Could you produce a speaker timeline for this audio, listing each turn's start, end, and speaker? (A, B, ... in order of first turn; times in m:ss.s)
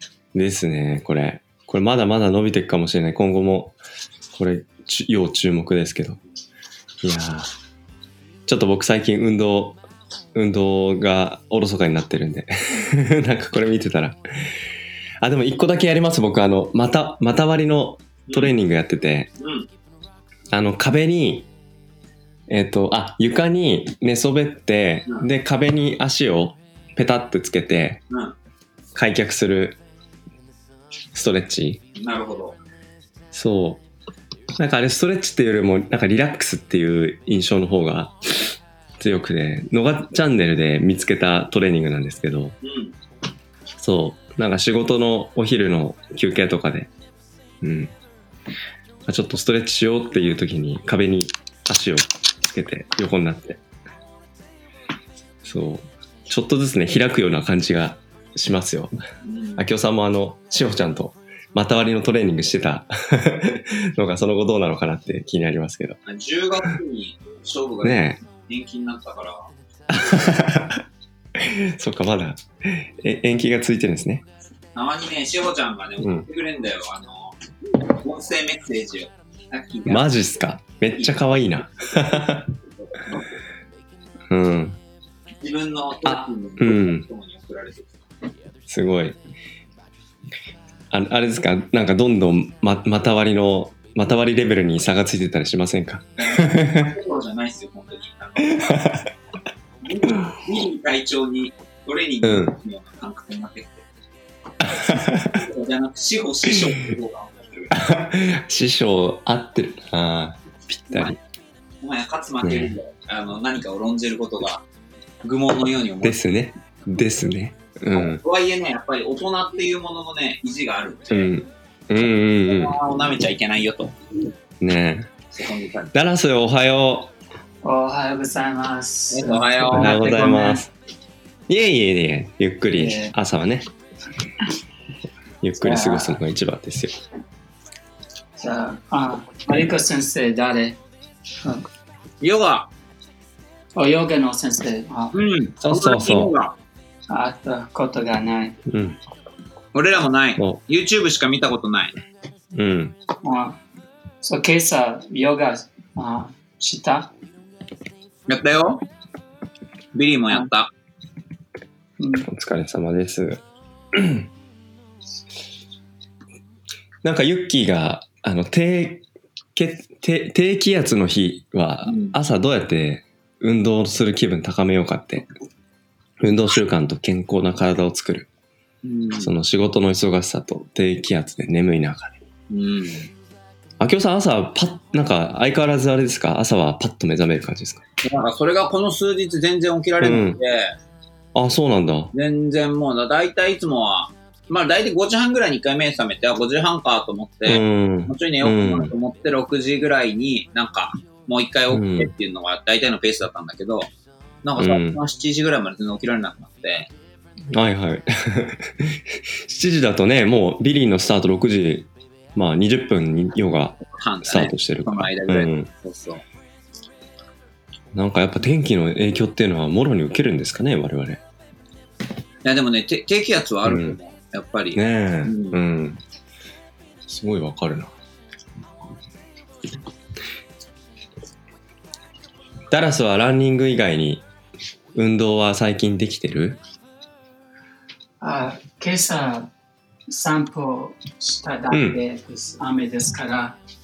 0:00.3-0:03.8 A
0:04.3-0:06.2 A
0:07.0-0:07.5 A
0:08.5-0:09.8 A
0:10.3-0:14.2 A
0:15.2-0:19.3 A
0:18.3-0:18.5 B
0:19.4-0:19.7 B
0:20.5-0:21.5 A
0:22.5-0:28.0 A
0:28.1-0:28.3 B
0:28.9-0:29.8 A
0:31.1-0:31.8 A
0:32.0-0:32.6 B
0:33.3-0:33.8 A
0:34.6-0:38.4 A
0:39.0-0:42.6 A
0:42.6-0:42.9 B
0:43.8-0:46.9 A
0:47.6-0:47.9 A
0:49.1-0:53.6 A
0:55.4-0:58.9 A
0:59.2-0:59.6 B
0:59.6-1:06.0 A
1:06.0-1:09.5 B
1:07.8-1:08.2 A
1:09.9-1:10.8 A
1:11.4-1:14.2 A
1:14.7-1:20.1 B
1:16.0-1:16.2 A
1:19.8-1:22.5 A
1:20.9-1:22.3 B
1:22.8-1:23.2 B
1:24.3-1:24.8 A
1:25.4-1:28.0 B
1:26.0-1:27.0 A
1:28.7-1:29.2 A
1:30.9-1:36.9 A
1:36.2-1:38.8 B
1:38.6-1:39.1 A
1:39.8-1:43.8 B
1:42.2-1:42.6 A
1:44.6-1:45.4 A
1:44.8-1:47.9 B
1:47.7-1:51.2 A
1:50.9-1:51.2 B
1:51.8-1:54.6 B
1:52.4-1:52.8 A
1:55.2-1:56.2 B
1:56.0-1:58.2 A
1:57.9-2:01.4 B
2:01.1-2:02.7 A
2:02.0-2:04.0 B
2:04.6-2:05.1 A
2:05.3-2:05.9 B
2:05.9-2:07.1 A
2:07.6-2:10.6 C
2:09.1-2:10.1 B
2:09.7-2:10.7 A
2:11.5-2:13.7 A
2:12.7-2:13.1 C
2:15.4-2:17.0 A
2:15.6-2:16.2 C
2:18.4-2:20.8 C
2:22.2-2:22.7 B
2:23.8-2:25.2 C
2:25.1-2:26.5 B
2:25.6-2:26.4 A
2:27.1-2:28.5 C
2:28.7-2:29.0 A
2:29.7-2:31.9 B
2:32.5-2:33.0 A
2:33.2-2:33.6 C
2:34.2-2:37.1 C
2:38.3-2:38.8 B
2:39.9-2:40.7 B
2:42.0-2:42.2 C
2:42.2-2:43.4 A
2:43.9-2:44.3 A
2:47.0-2:49.0 A
2:49.5-2:55.3 A
2:51.8-2:52.2 B
2:56.2-2:58.3 A
2:58.8-2:59.3 B
2:59.2-3:02.2 A
3:02.5-3:03.1 B
3:03.8-3:07.8 A
3:08.0-3:10.7 B
3:10.0-3:10.4 A
3:11.3-3:12.1 A
3:12.1-3:23.9 B
3:17.4-3:18.9 A
3:21.7-3:22.1 A
3:24.4-3:26.9 B
3:24.6-3:25.0 A
3:27.5-3:35.7 A
3:33.8-3:36.2 B
3:37.9-3:41.2 A
3:42.4-3:45.6 B
3:43.6-3:44.0 A
3:44.7-3:46.0 A
3:47.1-3:47.9 A
3:52.7-3:54.2 A
3:54.9-3:56.6 A
3:58.2-3:59.5 C
4:00.1-4:03.6 C
4:01.7-4:02.0 A